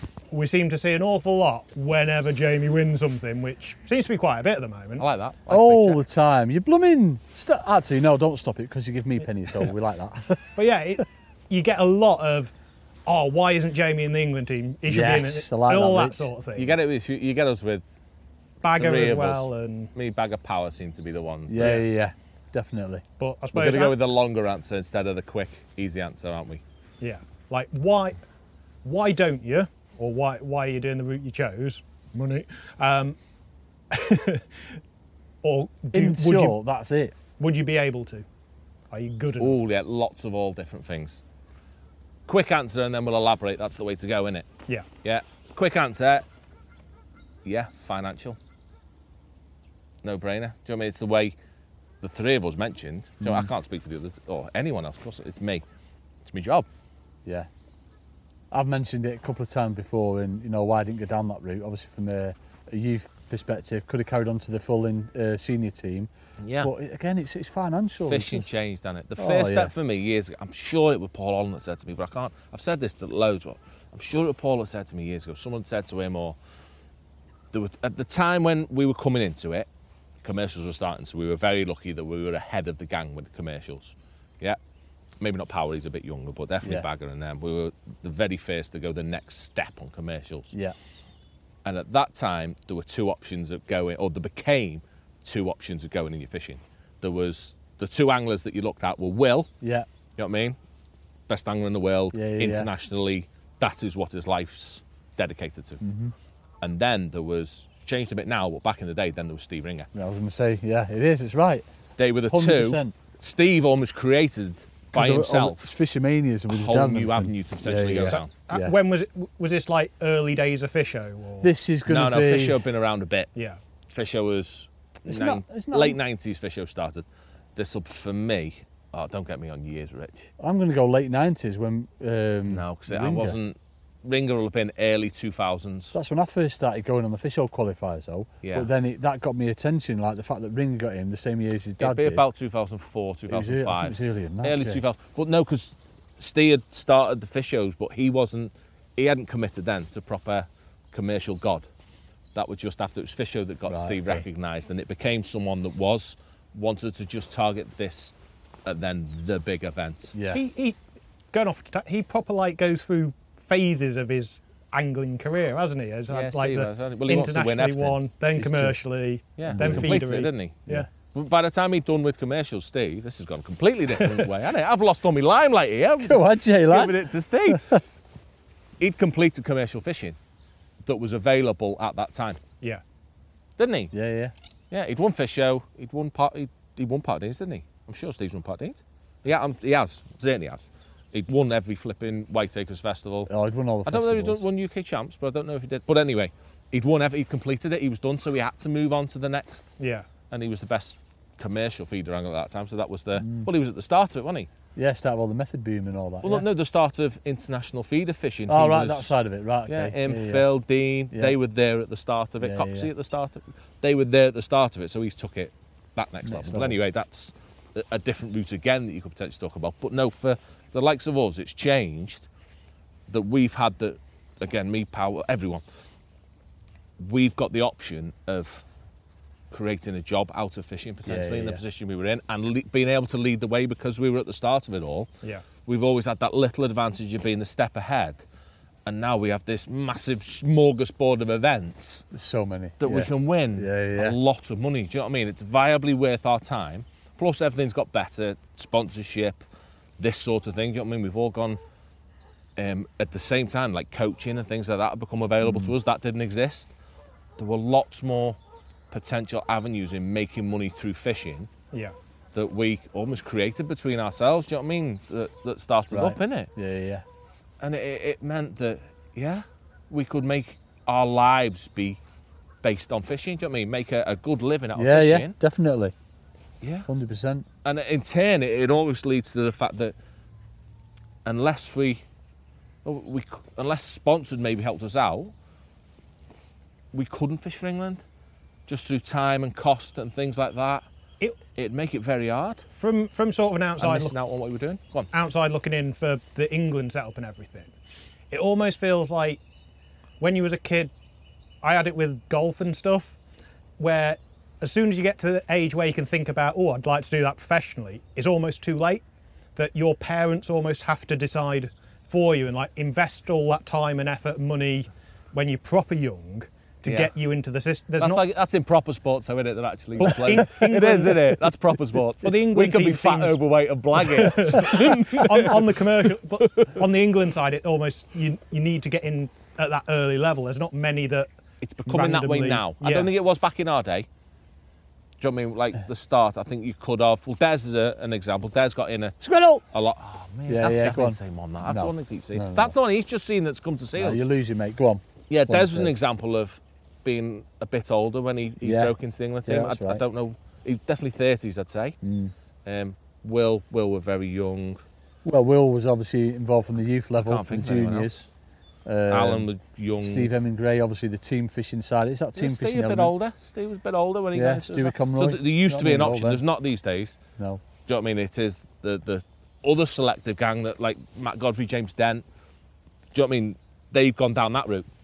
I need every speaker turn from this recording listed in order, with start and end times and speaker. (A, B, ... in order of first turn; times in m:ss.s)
0:00.3-0:05.0 A
0:05.0-0:06.0 B
0:05.5-0:11.0 C
0:10.6-0:12.5 A
0:13.0-0:16.8 A
0:14.8-0:16.3 C
0:16.6-0:17.8 B
0:18.6-0:19.9 A
0:18.8-0:21.8 B
0:21.5-0:23.0 C
0:21.6-0:21.9 A
0:23.2-0:24.0 A
0:23.5-0:26.6 B
0:27.0-0:28.2 A
0:28.8-0:33.2 A
0:33.9-0:34.6 A
0:35.4-0:36.6 A
0:35.9-0:37.2 C
0:37.4-0:38.2 A
0:38.9-0:39.6 A
0:39.4-0:41.2 B
0:42.3-0:44.5 B
0:45.0-0:46.2 B
0:47.4-0:48.4 B
0:50.0-0:51.3 B
0:52.0-0:55.6 B
0:53.2-0:53.5 C
0:56.2-0:56.7 B
0:58.5-1:06.1 C
1:06.4-1:06.7 B
1:06.6-1:08.5 C
1:08.1-1:16.4 B
1:09.2-1:09.7 C
1:17.5-1:19.7 B
1:20.2-1:24.6 B
1:25.2-1:30.5 B
1:31.6-1:39.5 B
1:39.6-1:39.9 C
1:40.2-1:40.6 B
1:41.3-1:45.8 B
1:42.1-1:42.7 C
1:45.8-1:46.1 C
1:46.6-1:49.9 B
1:49.9-1:51.6 C
1:52.0-1:55.7 B
1:52.3-1:53.0 C
1:54.9-1:58.7 C
1:56.5-1:58.3 B
1:58.0-2:01.5 A
2:01.4-2:02.6 C
2:01.8-2:03.3 B
2:03.9-2:10.3 B
2:05.1-2:06.0 C
2:10.4-2:13.4 C
2:12.5-2:15.9 B
2:15.9-2:22.2 C
2:18.4-2:18.7 B
2:21.8-2:31.7 B
2:23.3-2:24.8 C
2:32.3-2:38.1 B
2:33.7-2:34.2 C
2:38.6-2:40.1 B
2:40.1-2:40.4 C
2:40.3-2:40.8 A
2:41.3-2:50.9 A
2:46.1-2:48.0 B
2:48.3-2:48.9 C
2:49.4-2:57.8 B
2:49.5-2:50.0 C
2:54.0-2:54.3 A
2:56.0-2:57.8 C
2:58.8-3:00.2 B
3:00.8-3:02.4 B
3:03.6-3:03.9 B
3:03.9-3:04.3 C
3:04.7-3:13.3 B
3:13.3-3:14.4 C
3:13.8-3:19.7 B
3:19.8-3:20.1 A
3:20.3-3:24.5 B
3:23.2-3:23.5 C
3:24.7-3:26.5 C
3:26.2-3:29.1 B
3:28.5-3:30.5 C
3:29.7-3:42.2 B
3:32.4-3:32.9 C
3:36.2-3:36.8 C
3:43.1-3:45.6 B
3:47.0-3:48.6 B
3:49.5-3:55.1 B
3:51.0-3:51.6 C
3:55.6-3:58.2 B
3:58.8-4:02.0 B
4:02.1-4:04.2 C
4:02.8-4:09.4 B
4:10.0-4:11.6 B
4:12.6-4:16.7 B
4:15.4-4:15.7 C
4:17.4-4:18.4 B
4:18.9-4:21.5 B
4:22.3-4:26.5 B
4:25.9-4:27.0 C
4:27.6-4:32.0 B
4:32.6-4:35.4 B
4:34.7-4:35.9 C
4:36.6-4:36.9 B
4:36.9-4:37.4 C
4:37.6-4:39.9 B
4:41.2-4:42.0 B
4:42.8-4:45.3 B
4:46.9-4:48.0 B
4:48.7-4:50.8 B
4:51.5-4:52.6 B
4:52.7-4:54.1 A
4:53.8-4:55.1 B
4:55.1-4:57.7 A
4:58.3-4:59.4 A
5:00.2-5:00.9 A
5:01.6-5:03.1 A
5:03.8-5:09.0 A
5:09.6-5:18.2 A
5:16.8-5:17.1 B
5:18.0-5:25.9 B
5:20.0-5:21.4 A
5:22.2-5:23.4 A
5:24.0-5:31.3 A
5:26.4-5:26.8 B
5:31.6-5:34.1 B
5:31.9-5:33.1 A
5:35.2-5:44.2 B
5:39.2-5:39.6 C
5:40.5-5:42.7 C
5:44.0-5:45.9 C
5:45.3-5:52.0 B
5:48.6-5:50.0 C
5:52.0-5:52.3 C
5:52.6-5:54.8 B
5:55.2-5:58.3 C
5:57.2-5:58.1 B
5:58.8-5:59.5 C
5:59.1-6:00.3 B
6:00.0-6:03.1 C
6:02.4-6:07.2 B
6:04.3-6:06.4 C
6:07.4-6:07.6 C
6:07.8-6:12.2 B
6:13.1-6:14.9 B